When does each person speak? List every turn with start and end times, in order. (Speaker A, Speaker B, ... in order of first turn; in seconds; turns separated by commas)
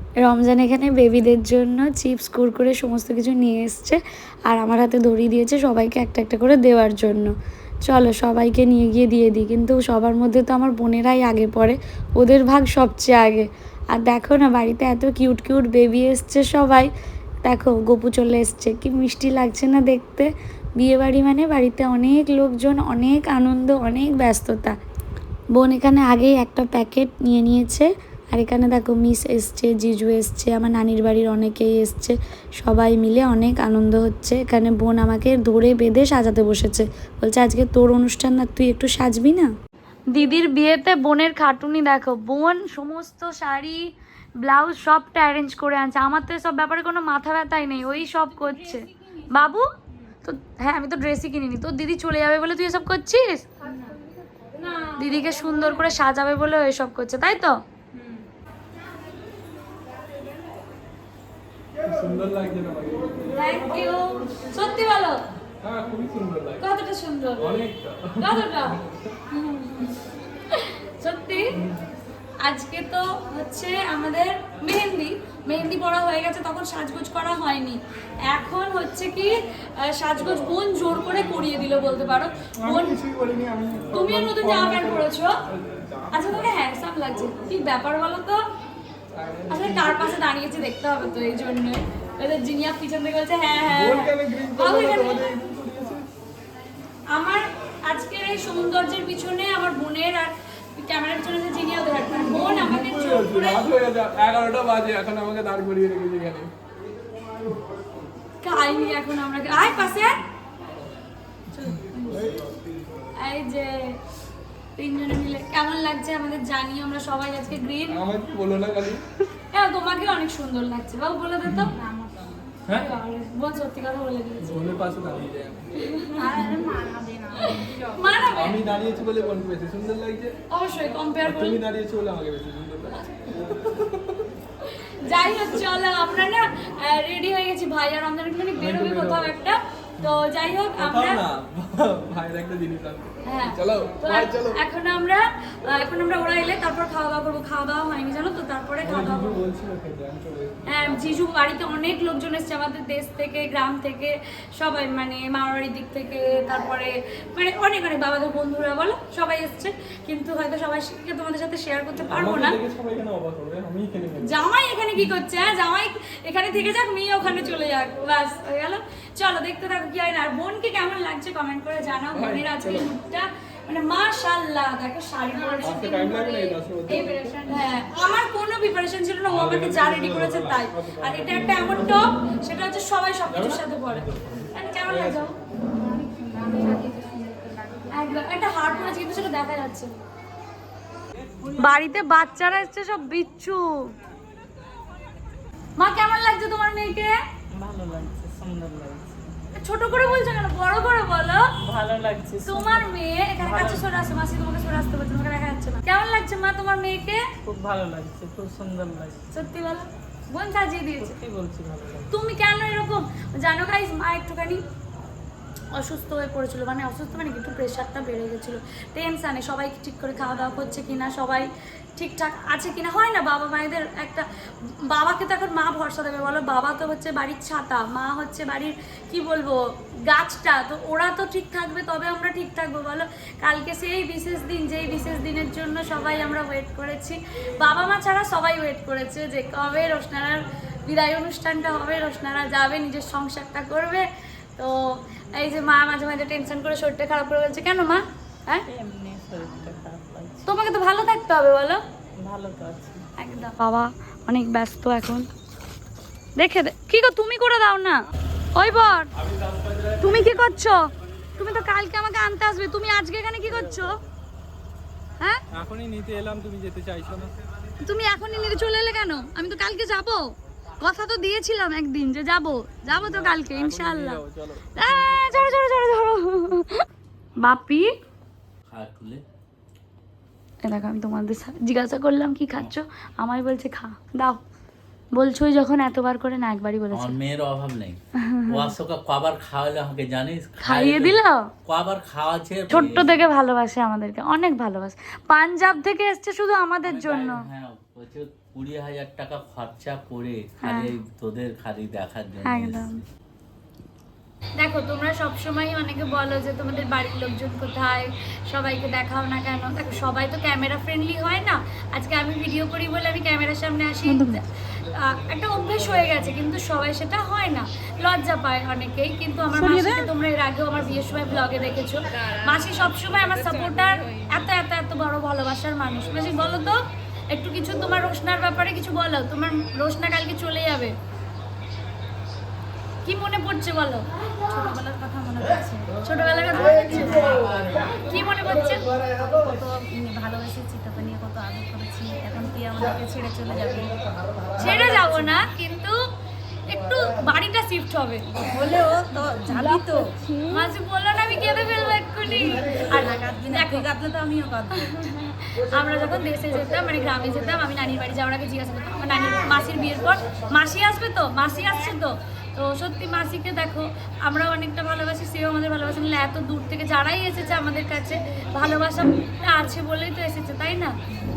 Speaker A: 0.2-7.3, Speaker A: 7.8-16.9, Speaker A: 17.4-24.7, Speaker A: 25.5-39.5, Speaker A: 40.1-49.7, Speaker A: 50.2-53.5, Speaker B: 53.6-54.0, Speaker B: 54.6-55.6, Speaker A: 55.0-57.6, Speaker B: 57.9-58.2, Speaker C: 61.8-63.6, Speaker A: 63.3-65.2, Speaker C: 65.6-66.6, Speaker A: 66.6-67.5, Speaker C: 67.4-69.1, Speaker A: 68.2-68.8, Speaker A: 69.3-69.9, Speaker A: 70.5-71.5, Speaker C: 71.5-71.8, Speaker A: 72.4-83.0, Speaker C: 82.6-86.5, Speaker A: 83.9-85.3, Speaker A: 86.1-88.4, Speaker C: 89.1-90.2, Speaker A: 89.5-95.2, Speaker C: 93.7-96.1, Speaker A: 97.1-103.7, Speaker C: 102.1-106.5, Speaker A: 108.4-110.2, Speaker A: 111.5-112.3, Speaker C: 111.7-112.5, Speaker A: 113.2-114.0, Speaker A: 114.8-118.0, Speaker C: 117.9-119.0, Speaker A: 119.5-121.7, Speaker C: 121.4-121.7, Speaker B: 121.7-122.6, Speaker A: 122.7-124.5, Speaker C: 124.4-125.7, Speaker A: 125.8-126.5, Speaker B: 126.2-128.2, Speaker A: 127.4-128.6, Speaker C: 128.3-130.3, Speaker A: 130.5-131.6, Speaker C: 131.2-134.3, Speaker A: 135.0-141.2, Speaker C: 138.6-139.3, Speaker C: 140.8-144.6, Speaker A: 143.2-149.4, Speaker C: 148.8-151.2, Speaker A: 150.7-162.6, Speaker C: 162.1-164.3, Speaker A: 164.2-185.4, Speaker C: 172.1-172.9, Speaker B: 175.3-175.7, Speaker C: 175.6-177.4, Speaker B: 176.9-177.7, Speaker C: 179.3-182.0, Speaker C: 183.3-185.3, Speaker B: 185.7-189.0, Speaker A: 187.9-190.0, Speaker A: 191.5-193.9, Speaker A: 195.8-197.1, Speaker D: 197.5-199.3, Speaker A: 199.5-201.5, Speaker D: 201.6-203.8, Speaker A: 202.4-207.2, Speaker D: 207.4-209.2, Speaker A: 209.3-211.2, Speaker D: 211.0-212.1, Speaker A: 212.1-214.6, Speaker A: 215.7-224.2, Speaker A: 224.8-244.1, Speaker A: 244.6-248.6, Speaker D: 248.7-250.5, Speaker A: 250.4-251.8, Speaker D: 252.2-253.0, Speaker A: 253.2-255.3, Speaker A: 256.4-258.0, Speaker A: 258.5-259.1, Speaker C: 259.1-260.4, Speaker A: 260.0-260.9, Speaker A: 261.4-263.9, Speaker C: 263.6-263.9, Speaker C: 265.5-267.3, Speaker A: 267.8-274.2, Speaker C: 272.9-275.6, Speaker A: 274.7-276.8, Speaker A: 277.4-277.9, Speaker E: 278.7-279.2, Speaker A: 280.6-284.4, Speaker A: 285.1-287.2, Speaker E: 286.9-288.0, Speaker A: 288.3-288.7, Speaker E: 288.5-293.1, Speaker A: 290.6-291.4, Speaker A: 292.7-297.4, Speaker E: 296.8-302.9, Speaker A: 300.6-300.9, Speaker A: 302.4-303.0, Speaker A: 304.6-330.9, Speaker B: 322.1-324.5, Speaker A: 333.0-334.1, Speaker B: 334.4-336.0, Speaker A: 336.0-337.5, Speaker B: 336.5-344.0, Speaker A: 338.0-338.9, Speaker B: 344.5-345.5, Speaker A: 344.6-346.0, Speaker A: 346.6-348.9, Speaker B: 348.4-350.5, Speaker A: 349.6-349.9, Speaker A: 350.5-353.9, Speaker B: 352.3-354.9, Speaker A: 354.7-370.9